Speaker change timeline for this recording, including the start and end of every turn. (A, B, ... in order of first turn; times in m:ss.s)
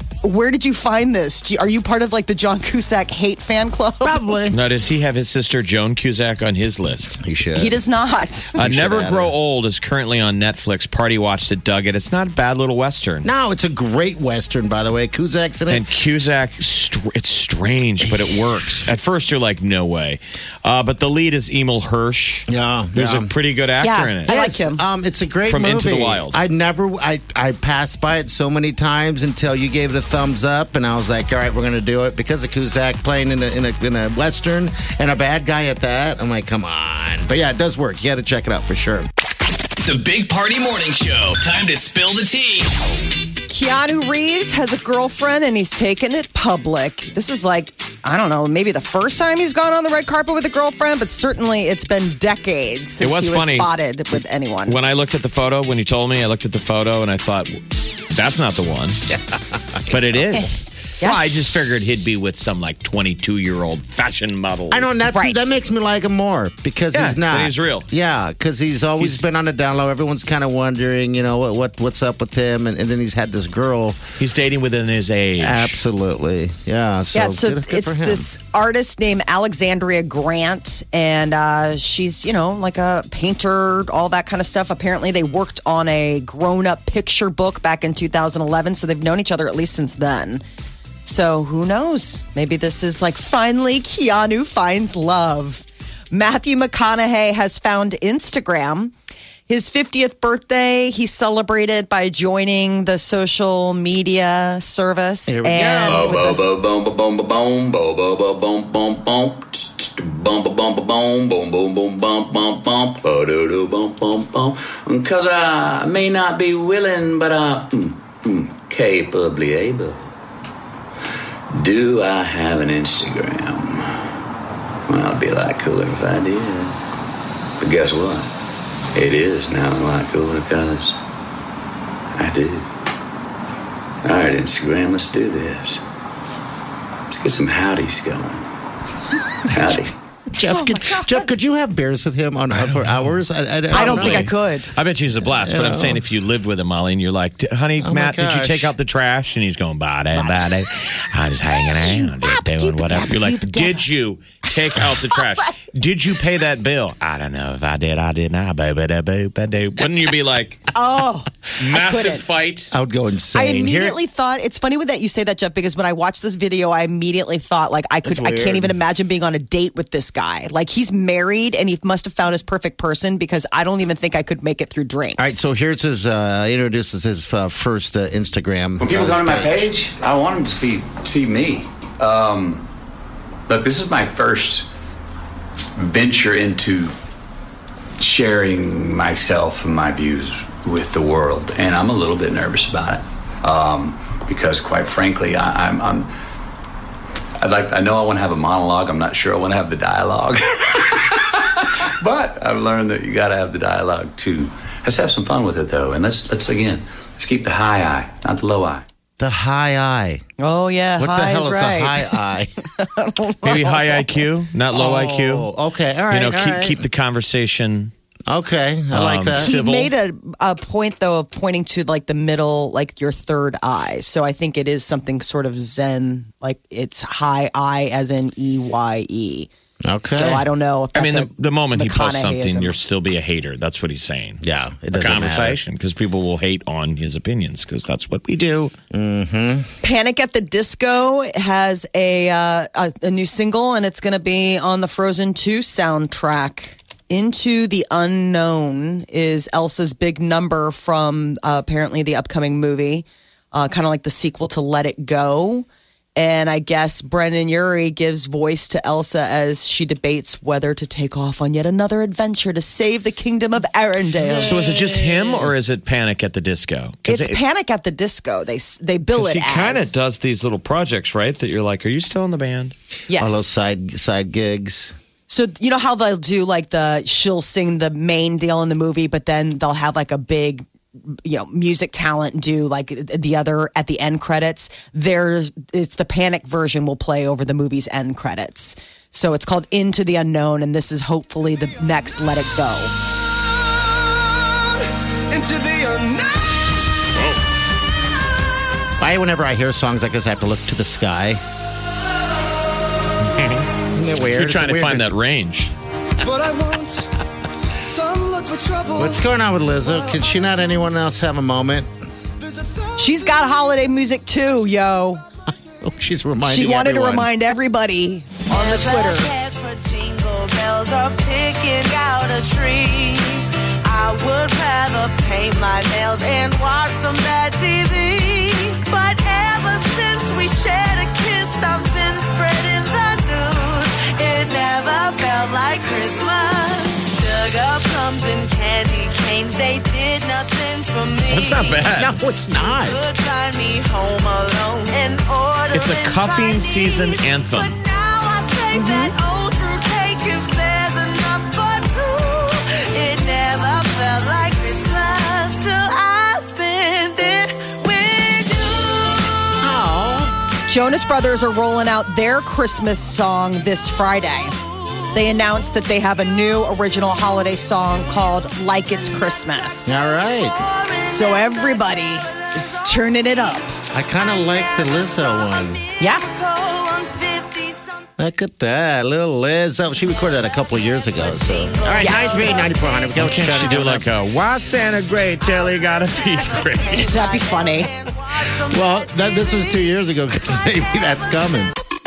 0:00.2-0:04.2 A
0:04.0-0:04.6 B
0:04.5-0:07.2 C
0:07.1-0:07.8 B
0:07.5-0:08.6 A
0:08.6-0:09.3 B
0:08.6-0:13.3 C
0:13.2-0:15.8 B
0:15.7-0:24.4 C
0:22.5-0:23.3 B
0:23.8-0:24.8 A
0:24.3-0:39.1 B
0:25.4-0:26.4 C
0:39.8-0:42.7 D
0:43.5-0:54.8 A
0:53.0-0:53.7 C
0:54.7-0:59.0 C
0:59.9-1:04.9 C
1:01.0-1:01.5 A
1:04.7-1:14.0 B
1:05.1-1:05.5 A
1:06.9-1:07.9 C
1:09.0-1:09.2 C
1:14.2-1:15.8 C
1:15.4-1:18.3 B
1:17.1-1:30.4 A
1:31.0-1:38.9 A
1:39.5-1:46.4 A
1:45.3-1:46.3 B
1:45.8-2:00.1 E
2:01.5-2:04.2 E
2:04.9-2:06.8 E
2:07.6-2:08.3 E
2:08.9-2:11.0 E
2:12.1-2:12.7 E
2:14.0-2:15.8 E
2:17.1-2:18.5 E
2:19.5-2:19.9 E
2:20.3-2:24.3 B
2:20.4-2:21.2 A
2:22.5-2:23.2 C
2:23.7-2:40.7 C
2:23.7-2:24.7 A
2:25.3-2:26.0 B
2:27.8-2:28.7 B
2:30.1-2:30.5 A
2:31.5-2:33.9 A
2:34.9-2:35.4 A
2:40.7-2:42.2 A
2:41.6-2:42.7 C
2:42.7-2:44.0 B
2:43.3-2:55.5 A
2:48.0-2:48.8 B
2:55.2-2:59.7 B
2:58.8-3:02.6 E
3:03.5-3:04.7 E
3:05.8-3:06.9 E
3:08.0-3:16.1 E
3:17.4-3:28.8 E
3:29.2-3:30.2 B
3:30.4-3:32.1 A
3:31.0-3:32.5 B
3:32.7-3:34.0 A
3:33.4-3:35.5 C
3:34.7-3:36.8 B
3:36.1-3:37.9 C
3:38.3-3:39.6 B
3:38.9-3:39.9 C
3:39.4-3:49.5 A
3:49.8-3:50.4 B
3:50.1-3:52.8 A
3:50.9-3:54.4 C
3:54.4-3:55.6 B
3:54.9-3:58.7 C
3:58.9-3:59.7 B
3:59.8-4:24.6 A
4:24.2-4:25.5 B
4:24.4-4:27.4 C
4:27.0-4:29.9 A
4:29.1-4:32.7 C
4:33.1-4:33.6 A
4:33.1-4:34.9 B
4:35.3-4:40.6 A
4:41.2-4:52.9 A
4:55.4-4:56.0 F
4:59.0-5:01.4 B
5:03.2-5:05.7 C
5:03.9-5:05.1 B
5:06.4-5:06.9 F
5:07.9-5:08.8 F
5:08.4-5:08.9 G
5:09.0-5:11.9 B
5:09.9-5:10.1 G
5:13.0-5:15.2 A
5:15.8-5:17.3 B
5:16.4-5:19.3 A
5:18.5-5:42.0 G
5:41.3-5:42.2 C
5:42.0-5:43.1 B
5:42.5-5:59.0 G
5:45.7-5:47.8 C
5:48.7-5:49.1 A
5:59.6-6:00.3 B
6:00.6-6:04.6 A
6:05.1-6:10.1 A
6:09.8-6:10.5 B
6:10.6-6:11.9 G
6:11.0-6:13.7 A
6:12.6-6:13.1 G
6:13.9-6:15.8 B
6:15.0-6:18.0 G
6:16.0-6:16.2 A
6:18.2-6:24.1 B
6:21.2-6:23.2 G
6:22.0-6:22.4 A
6:23.1-6:27.2 C
6:25.5-6:29.9 G
6:26.9-6:27.9 A
6:28.7-6:31.7 B
6:30.6-6:31.3 G